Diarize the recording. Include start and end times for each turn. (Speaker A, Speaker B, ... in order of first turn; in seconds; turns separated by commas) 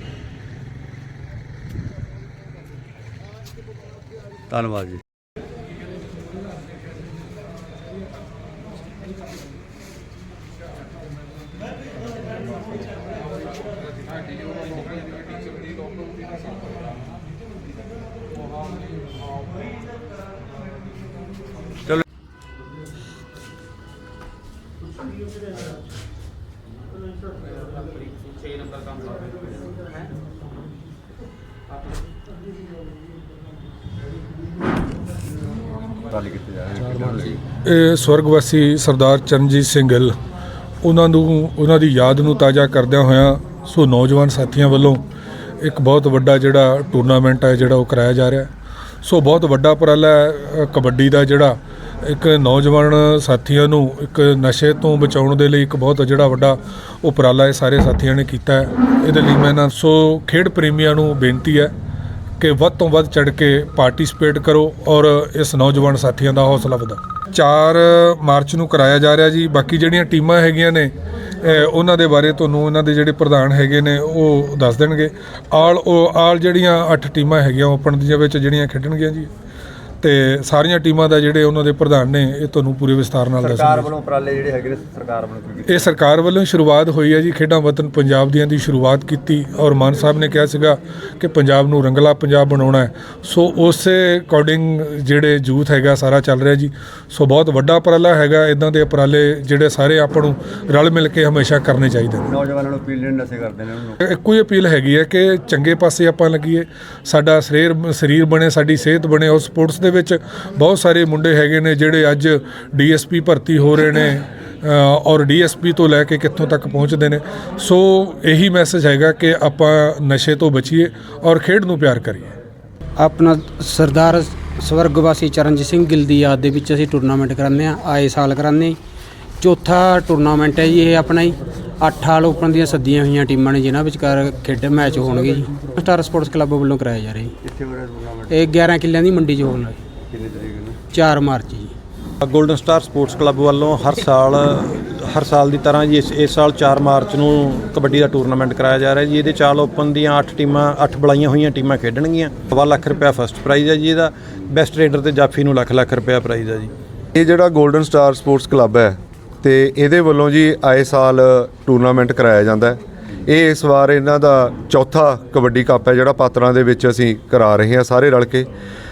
Speaker A: 4.5-5.0, Speaker A: 36.1-37.4, Speaker B: 37.6-40.1, Speaker B: 40.8-45.0, Speaker B: 45.6-48.5, Speaker B: 49.0-61.7, Speaker B: 62.4-79.3, Speaker B: 80.0-83.9, Speaker A: 83.4-85.9, Speaker B: 85.7-102.3, Speaker A: 102.2-104.0, Speaker B: 104.0-122.3, Speaker C: 123.0-128.8, Speaker C: 129.4-137.3, Speaker A: 137.4-138.3, Speaker C: 138.3-139.8, Speaker A: 140.1-140.8, Speaker C: 140.9-141.7, Speaker D: 142.2-156.7, Speaker E: 157.2-168.5